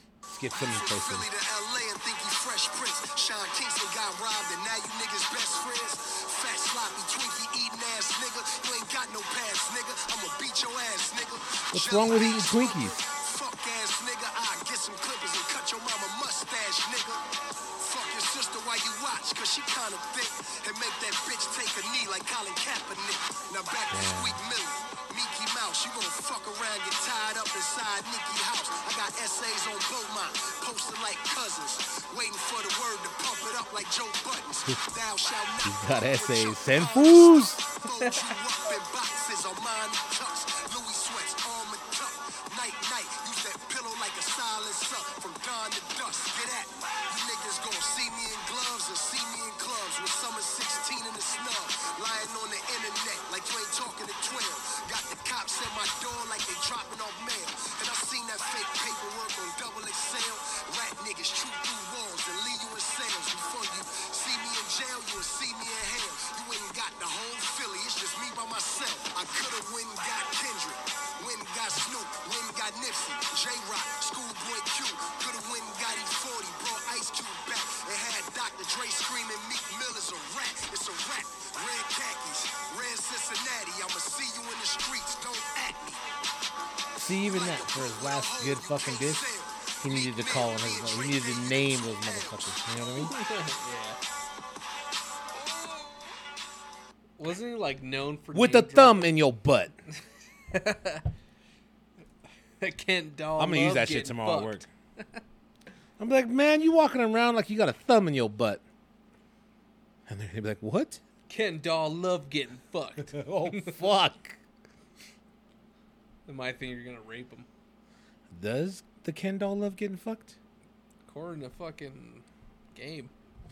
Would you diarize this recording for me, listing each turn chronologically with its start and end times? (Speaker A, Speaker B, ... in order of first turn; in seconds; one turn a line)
Speaker A: 0.3-1.3
Speaker B: 0.5-17.2
Speaker A: 11.7-13.0
Speaker B: 17.8-86.0
Speaker A: 23.9-24.4
Speaker A: 35.6-37.6
Speaker C: 38.0-38.3
Speaker A: 87.0-89.3
Speaker B: 87.2-92.6
Speaker A: 89.8-93.1
Speaker C: 93.0-94.0
Speaker C: 97.2-99.2
Speaker A: 98.3-99.7
Speaker C: 100.5-101.1
Speaker C: 102.6-104.6
Speaker A: 103.4-104.7
Speaker A: 106.0-108.6
Speaker A: 110.1-111.0
Speaker C: 111.3-113.8
Speaker A: 113.0-114.4
Speaker C: 116.2-117.5
Speaker A: 118.3-120.4
Speaker C: 121.0-123.1